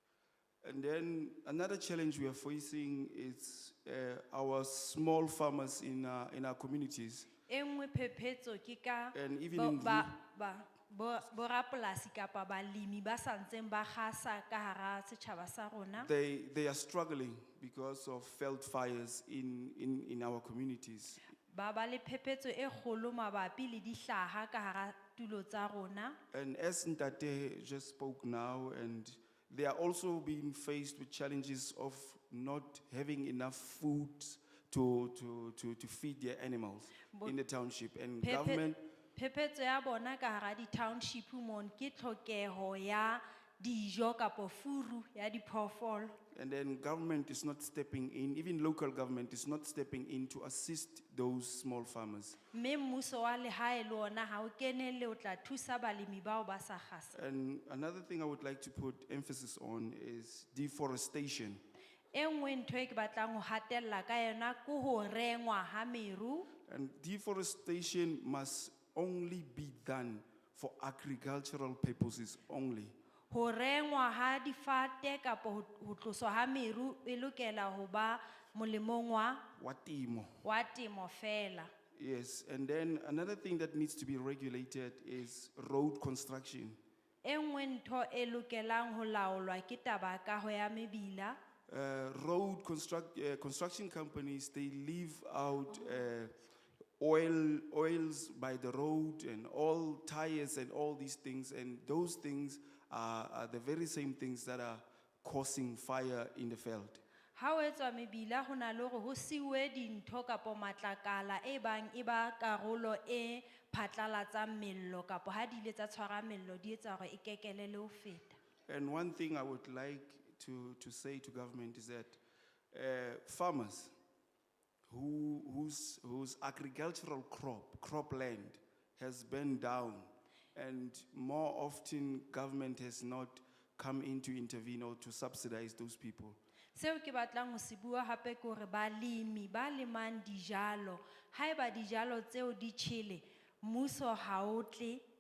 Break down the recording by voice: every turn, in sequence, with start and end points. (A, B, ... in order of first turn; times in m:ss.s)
0:00.6-0:07.3 A
0:07.5-0:16.1 B
0:09.1-0:10.1 A
0:16.0-0:21.3 A
0:21.5-0:26.2 B
0:26.3-0:38.8 A
0:38.2-0:46.2 B
0:46.3-0:52.4 A
0:52.5-0:57.2 B
0:57.1-1:01.6 A
1:02.1-1:06.5 B
1:06.7-1:12.9 A
1:13.3-1:19.4 B
1:19.6-1:20.4 A
1:20.4-1:21.7 B
1:21.9-1:26.8 A
1:27.2-1:31.4 B
1:31.7-1:36.3 A
1:37.0-1:47.0 A
1:47.4-1:58.4 B
1:58.7-2:02.2 A
2:02.7-2:03.9 A
2:04.9-2:16.4 A
2:16.7-2:25.0 B